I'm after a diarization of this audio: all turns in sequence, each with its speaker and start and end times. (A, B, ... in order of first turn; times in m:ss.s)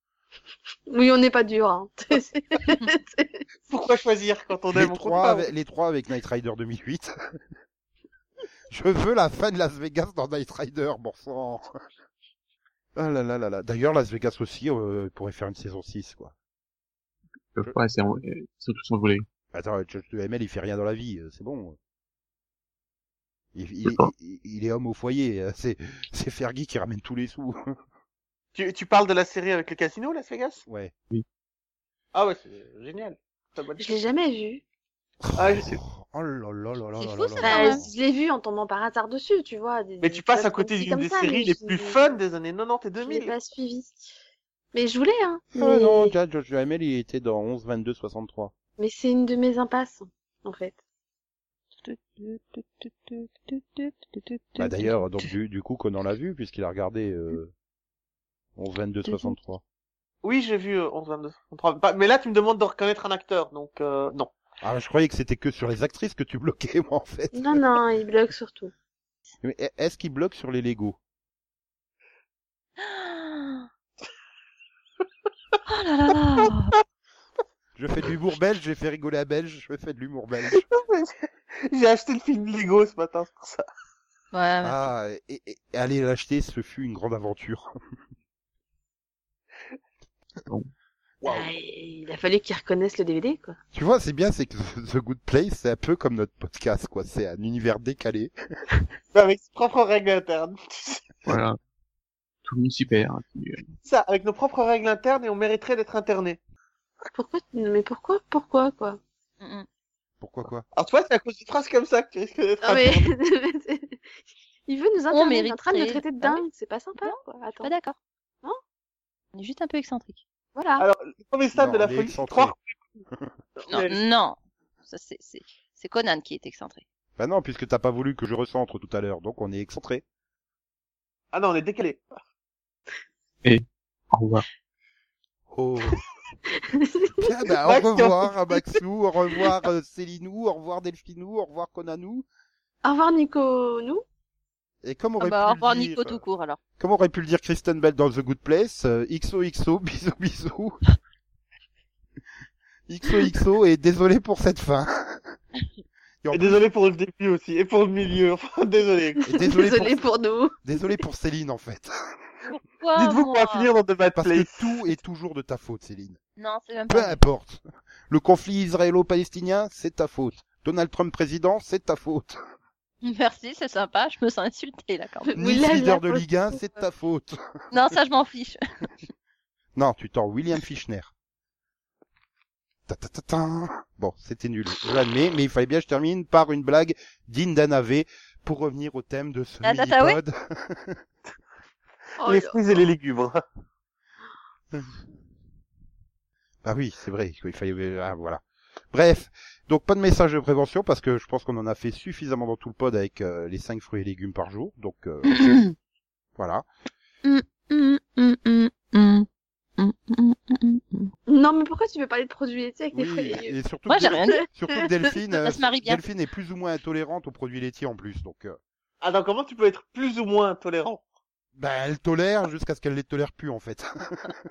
0:00.9-0:03.4 A
0:03.7-0:05.5 B
0:04.7-0:07.1 C
0:08.7-0:11.7 C
0:13.0-0:16.3 C
0:17.5-0:19.2 D
0:19.5-0:21.8 C
0:23.6-0:27.8 C
0:23.8-0:24.1 D
0:28.6-0:30.6 B
0:30.7-0:30.9 C
0:32.1-0:34.0 B
0:33.8-0:34.6 A
0:35.2-0:37.9 C
0:35.4-0:35.8 B
0:37.0-0:37.8 E
0:37.4-0:42.2 A
0:40.0-0:43.3 B
0:43.0-0:44.1 A
0:44.7-0:46.1 A
0:45.6-0:48.5 C
0:48.8-0:50.8 A
0:54.5-0:54.9 E
0:54.6-0:57.5 C
0:58.6-0:59.6 C
1:00.2-1:04.3 B
1:04.6-1:07.6 C
1:07.3-1:08.7 A
1:09.4-1:11.0 C
1:12.8-1:13.7 E
1:15.7-1:16.7 E
1:17.8-1:20.6 C
1:20.5-1:23.6 B
1:24.3-1:24.8 E
1:24.6-1:27.7 C
1:31.2-1:33.6 A
1:33.7-1:38.3 C
1:39.1-1:41.2 B
1:41.3-1:41.6 D
1:42.4-1:43.7 D
1:43.8-1:46.4 B
1:47.1-1:49.0 A
1:49.4-1:49.7 E
1:50.2-1:50.6 C
1:50.7-1:53.1 B
1:52.6-1:54.0 A
1:54.7-1:57.7 A
1:55.1-1:56.4 E
1:57.0-1:58.0 E
1:59.3-2:00.2 E
2:00.6-2:00.9 A
2:00.8-2:02.7 B
2:01.5-2:02.6 C
2:03.6-2:04.0 B
2:03.7-2:04.4 E
2:04.9-2:06.8 E
2:07.2-2:10.0 C
2:11.3-2:12.2 B
2:13.4-2:14.4 D
2:15.5-2:16.0 C
2:16.5-2:17.3 A
2:17.2-2:22.3 C
2:17.7-2:18.3 B
2:22.8-2:24.0 A
2:24.8-2:26.2 C
2:25.2-2:26.6 E
2:26.8-2:30.8 C
2:32.9-2:35.4 C
2:36.2-2:36.6 C
2:36.3-2:39.3 B
2:39.2-2:40.6 A
2:39.3-2:40.1 C
2:40.6-2:41.9 C
2:42.8-2:43.7 E
2:43.0-2:44.9 B
2:44.2-2:46.2 C
2:46.4-2:47.2 E
2:46.9-2:52.4 C
2:53.0-2:55.3 E
2:55.3-2:56.6 A
2:55.4-2:57.4 C
2:57.7-2:58.6 E
2:59.8-3:01.1 C
3:02.9-3:11.0 C
3:09.6-3:10.2 E
3:12.2-3:12.6 A
3:12.2-3:13.4 B
3:16.6-3:25.5 C
3:25.3-3:25.8 E
3:26.4-3:26.7 C
3:27.2-3:29.3 E
3:29.8-3:31.1 E
3:31.3-3:33.6 A
3:32.9-3:38.6 C
3:33.9-3:34.4 E
3:35.3-3:36.0 E
3:39.0-3:41.0 B
3:41.6-3:44.4 C